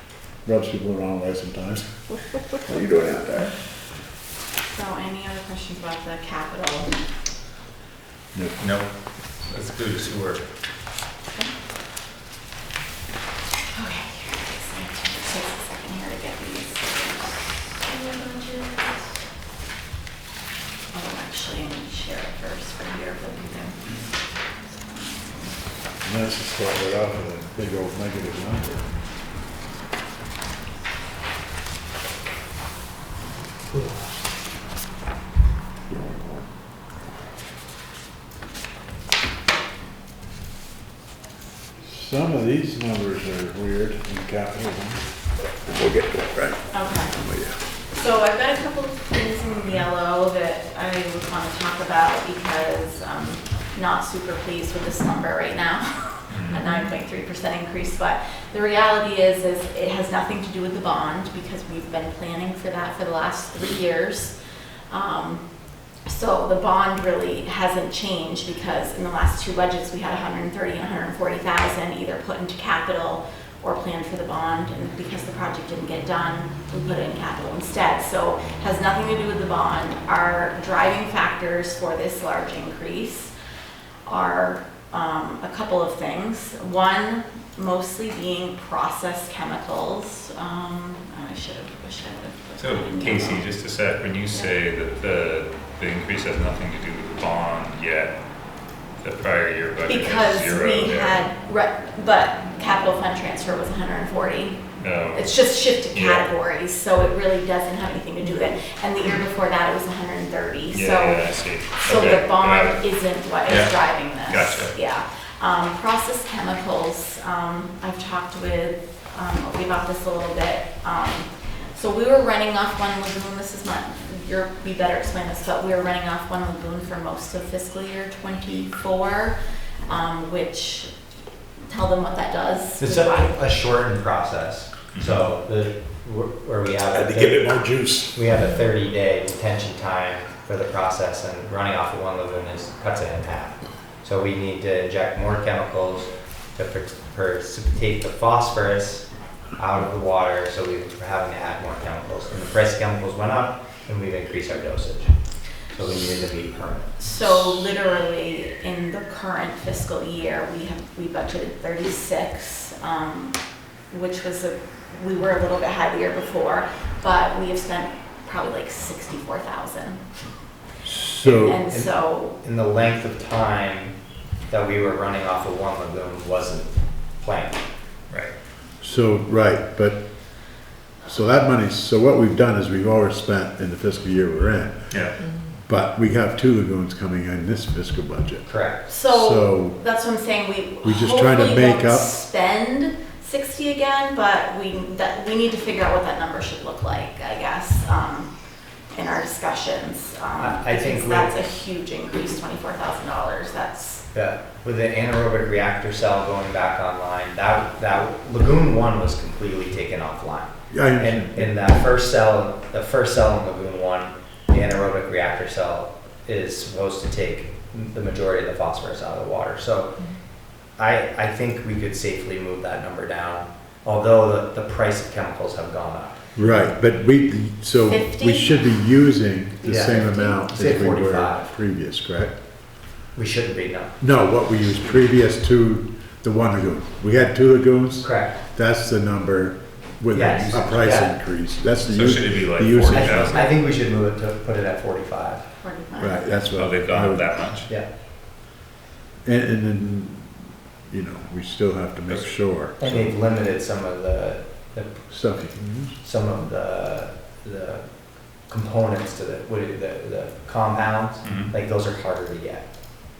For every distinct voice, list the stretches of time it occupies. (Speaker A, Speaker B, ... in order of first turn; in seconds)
Speaker A: 0.4-1.9, 2.5-3.5, 8.3-8.6, 26.0-28.9, 33.7-34.1, 35.9-36.4, 41.8-45.1, 45.6-46.6, 47.1-47.6, 136.9-138.2, 170.8-171.6, 178.8-180.4, 181.0-189.8, 190.8-192.1, 210.7-211.5, 226.3-232.3, 234.0-243.4, 246.0-247.3, 249.2-253.1, 255.1-256.0
Speaker B: 4.7-6.9, 13.7-19.1, 20.9-23.8, 24.7-25.5, 46.7-47.1, 47.9-64.3, 64.9-65.4, 66.0-83.3, 84.0-93.4, 99.9-104.6, 105.1-111.2, 111.8-130.9, 131.7-133.3, 157.0-163.3, 163.9-170.0, 171.2-172.3, 188.9-198.3, 198.9-204.0, 227.8-228.7, 245.6-246.3
Speaker C: 8.6-8.9, 9.4-10.4, 132.8-149.1, 149.6-155.1, 155.7-157.6, 171.2-173.9, 174.5-177.6, 188.4-188.8, 200.4-201.3, 204.1-220.0, 220.7-226.2, 229.6-231.5, 233.1-234.0, 238.0-238.3, 240.1-241.1, 242.8-245.5, 252.8-255.0, 256.0-257.8, 258.5-262.6
Speaker D: 56.3-56.7, 92.6-98.1, 99.0-101.2, 104.8-105.3, 105.9-106.3, 110.7-112.8, 113.5-114.7, 134.9-135.2, 184.9-185.2, 241.8-243.5, 246.5-247.7, 261.2-261.5